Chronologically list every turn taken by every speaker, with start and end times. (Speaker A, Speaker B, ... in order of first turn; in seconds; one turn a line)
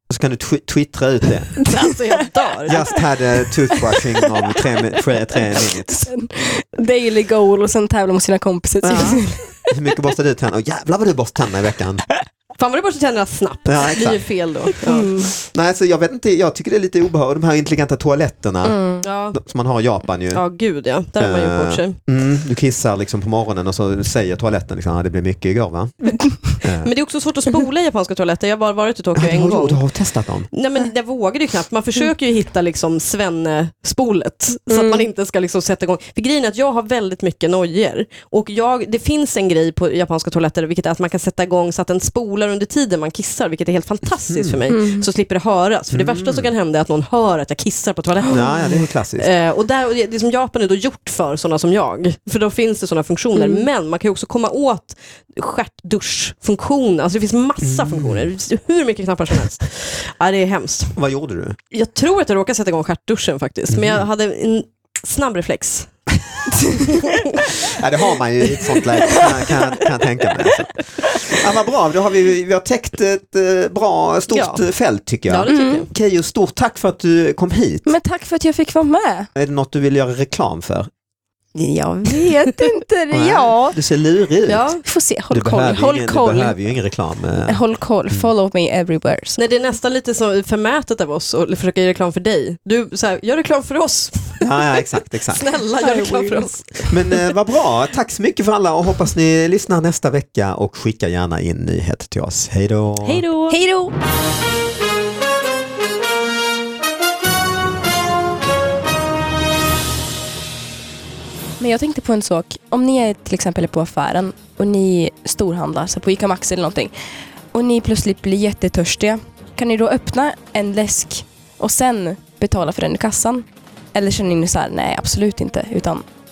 Speaker A: 0.1-1.6
Speaker B: 1.6-2.9
Speaker C: 1.7-2.3
Speaker A: 2.7-6.0
Speaker C: 5.9-9.4
Speaker A: 8.8-12.0
Speaker B: 12.6-15.2
Speaker A: 13.7-14.2
Speaker C: 14.8-15.3
Speaker A: 15.5-20.4
Speaker C: 18.6-19.1
Speaker B: 19.0-19.4
Speaker B: 20.3-22.0
Speaker A: 21.2-26.9
Speaker B: 26.8-29.8
Speaker A: 29.2-30.5
Speaker B: 30.5-48.6
Speaker C: 34.7-35.1
Speaker A: 44.3-44.6
Speaker C: 44.7-45.1
Speaker A: 45.9-46.5
Speaker A: 48.2-49.3
Speaker B: 49.2-61.0
Speaker C: 53.4-53.6
Speaker A: 57.6-58.3
Speaker A: 61.0-61.6
Speaker B: 61.7-65.9
Speaker A: 63.7-64.0
Speaker B: 66.7-67.4
Speaker C: 66.7-67.0
Speaker A: 67.4-77.9
Speaker B: 74.3-74.6
Speaker B: 75.3-75.9
Speaker C: 75.5-75.9
Speaker C: 77.9-79.3
Speaker A: 79.3-80.9
Speaker C: 81.6-83.8
Speaker A: 83.1-84.7
Speaker B: 84.5-84.8
Speaker C: 84.8-86.5
Speaker A: 85.3-87.6
Speaker C: 87.5-89.4
Speaker B: 89.4-96.9
Speaker A: 94.4-95.5
Speaker C: 95.8-96.5
Speaker A: 96.8-103.2
Speaker B: 103.0-103.6
Speaker C: 103.5-103.9
Speaker C: 111.6-116.9
Speaker C: 117.5-126.0